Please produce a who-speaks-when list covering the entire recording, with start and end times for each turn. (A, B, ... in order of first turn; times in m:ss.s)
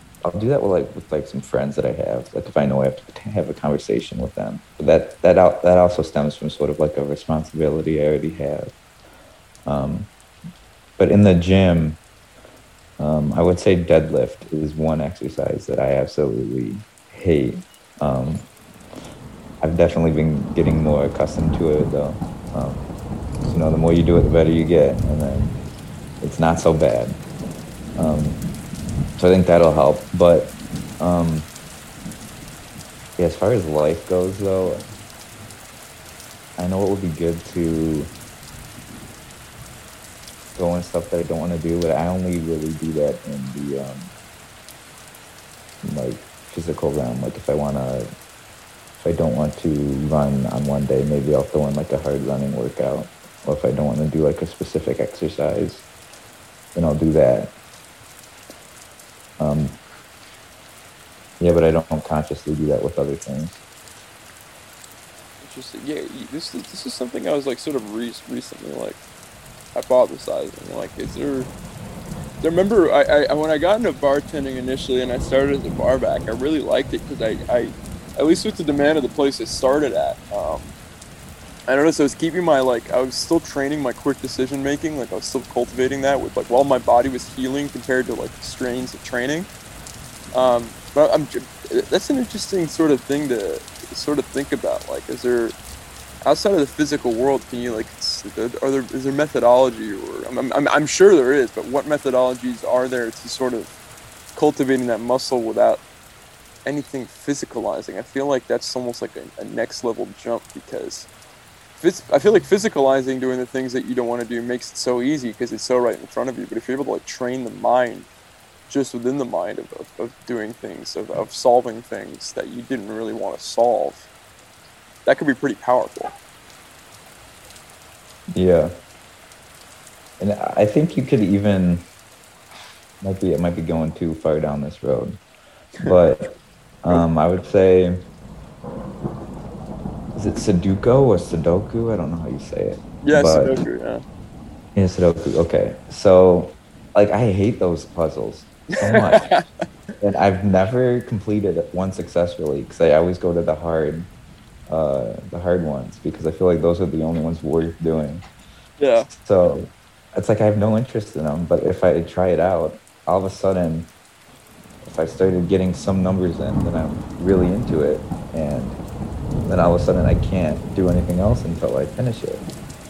0:00.2-0:08.7 A
0:09.6-0:10.1 A
0:11.0-0:12.0 A
0:13.0-0:18.4 A
0:19.6-0:22.8 A
0:23.5-0:25.6 A
0:26.2-0:27.2 A
0:28.0-0:28.4 A
0:29.2-0:31.5 A
0:33.2-0:34.8 A
0:36.6-0:38.1 A
0:40.5-0:44.1 A
0:45.8-0:48.1 A
0:49.0-0:55.9 A
0:56.7-0:57.5 A
0:59.4-0:59.8 A
1:01.4-1:03.6 A
1:05.4-1:09.0 B
1:09.7-1:11.5 B
1:12.4-1:20.7 B
1:21.7-1:29.5 B
1:30.3-1:35.5 B
1:36.2-1:43.7 B
1:44.3-1:45.8 B
1:46.6-1:51.1 B
1:51.8-1:58.1 B
1:58.7-2:04.1 B
2:05.0-2:06.1 B
2:08.3-2:08.7 A
2:10.2-2:11.8 A
2:13.0-2:15.2 A
2:15.8-2:16.2 A
2:16.8-2:18.0 A
2:20.2-2:23.6 A
2:23.0-2:24.0 B
2:24.7-2:29.3 A
2:28.7-2:29.4 B
2:30.0-2:34.1 A
2:34.7-2:38.2 A
2:38.8-2:39.1 B
2:39.1-2:43.9 A
2:44.8-2:48.8 A
2:49.5-2:52.4 A